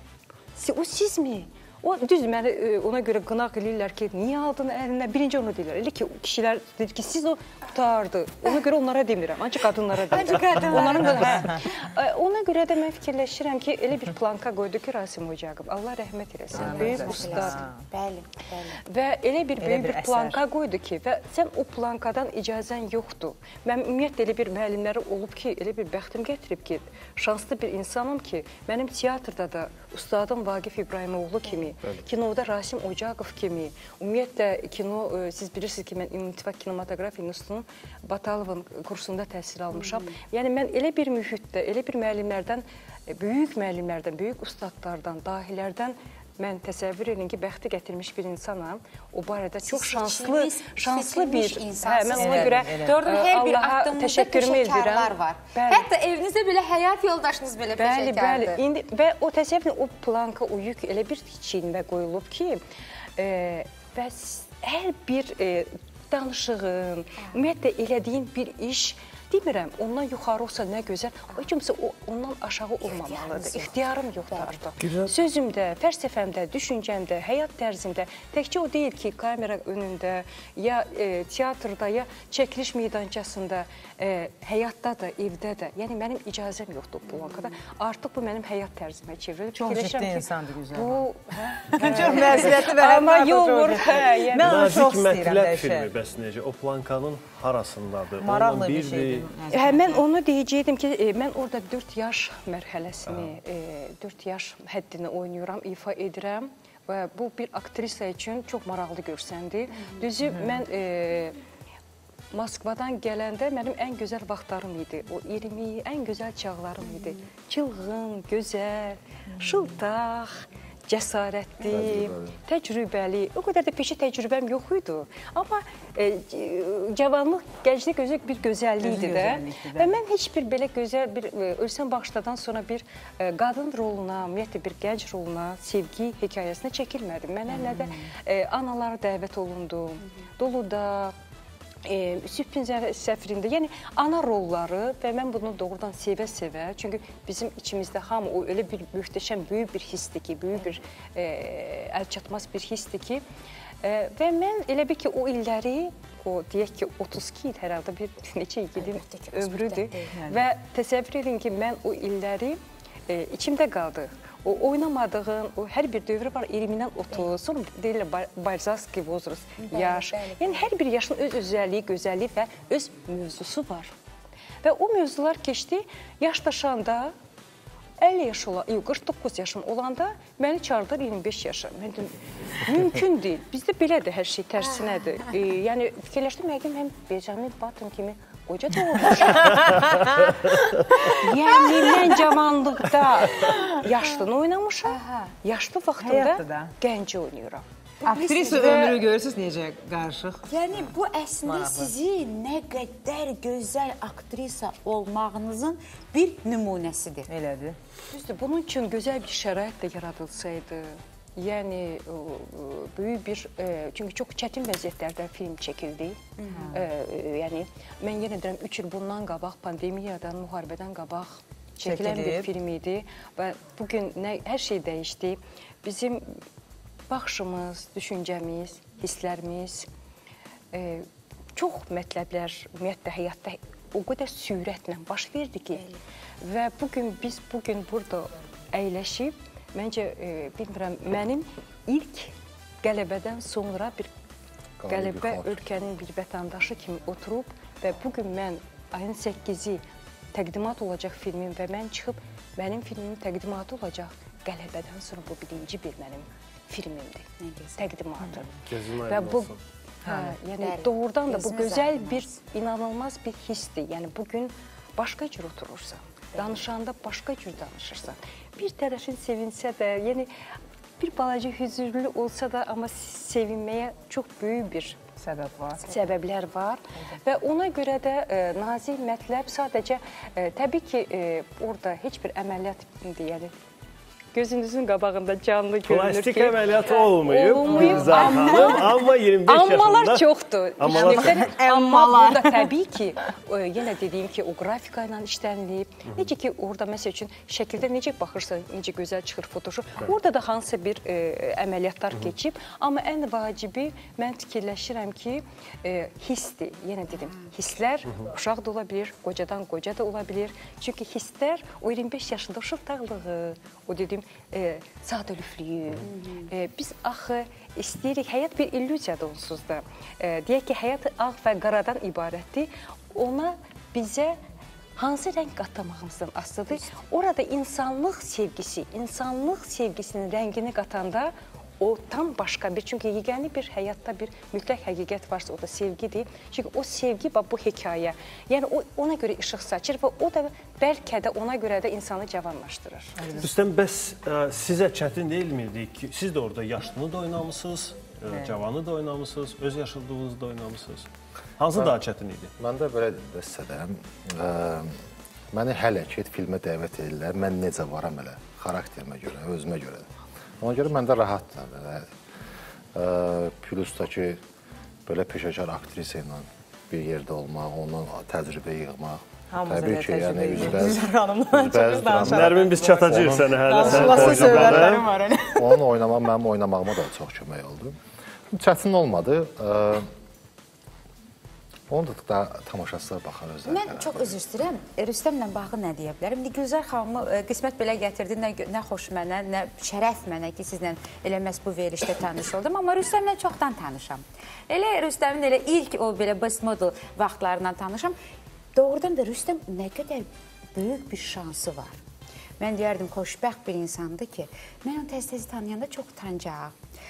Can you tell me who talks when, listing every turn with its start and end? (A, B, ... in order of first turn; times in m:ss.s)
0:00.6-0:17.6 A
0:10.1-0:11.6 B
0:10.8-0:11.6 C
0:16.5-0:17.9 C
0:16.5-0:18.8 B
0:18.8-0:55.9 A
0:19.6-0:20.4 C
0:39.7-0:40.1 B
0:49.7-0:58.6 B
0:52.1-0:53.0 C
0:57.8-1:02.6 A
1:03.2-1:34.7 A
1:12.9-1:14.6 B
1:14.8-1:15.1 D
1:27.2-1:27.5 B
1:29.6-1:31.1 C
1:31.7-1:35.9 C
1:34.4-1:39.3 D
1:38.2-1:40.0 C
1:39.5-1:51.4 A
1:43.1-1:43.4 D
1:49.7-1:50.1 B
1:52.3-2:21.1 A
1:56.9-1:57.2 B
1:59.4-1:59.7 C
2:01.6-2:01.9 B
2:01.7-2:02.4 E
2:08.8-2:10.0 C
2:17.5-2:18.1 B
2:21.8-2:33.2 A
2:33.8-2:53.9 A
2:38.8-2:40.2 B
2:40.1-2:40.4 C
2:49.6-2:50.7 B
2:54.6-2:57.1 A
2:58.0-3:09.9 A
3:09.3-3:10.3 C
3:11.0-3:17.6 A
3:11.1-3:12.2 B
3:13.4-3:13.8 C
3:14.9-3:15.3 B
3:16.0-3:16.7 C
3:18.0-3:19.0 B
3:18.0-3:21.9 C
3:20.5-3:27.3 B
3:27.3-3:27.8 C
3:28.1-3:36.2 A
3:36.4-3:36.8 B
3:36.5-3:36.8 C
3:36.7-3:46.4 A
3:41.8-3:42.5 C
3:47.1-3:49.9 A
3:50.7-3:55.9 A
3:55.7-3:56.0 B
3:56.4-4:02.3 A
4:02.8-4:04.1 A
4:04.8-4:05.6 E
4:04.9-4:09.8 A
4:10.3-4:19.5 A
4:17.4-4:17.9 B
4:18.7-4:19.6 D
4:20.0-4:20.4 C
4:20.0-4:30.3 A
4:20.6-4:22.4 B
4:31.0-4:35.0 A
4:35.2-4:36.0 C
4:35.9-4:43.6 A
4:44.3-5:24.4 A
4:45.9-4:51.5 D
4:47.7-4:48.6 C
4:48.1-4:48.8 B
4:50.9-4:52.7 C
5:07.1-5:07.5 B
5:16.0-5:16.5 B
5:25.0-5:43.3 A
5:43.2-5:43.5 C
5:43.4-5:51.1 D
5:48.3-5:48.6 C
5:51.6-5:52.5 D
5:51.7-5:52.0 E
5:52.6-5:55.0 E
5:55.5-6:00.1 E
6:00.6-6:02.1 E
6:02.9-6:04.4 E
6:05.1-6:15.0 E
6:09.5-6:15.8 C
6:11.9-6:15.1 D
6:15.6-6:18.0 E
6:18.5-6:20.1 E
6:21.9-6:24.4 E
6:23.7-6:38.2 B
6:38.8-6:42.0 B
6:42.6-6:46.8 B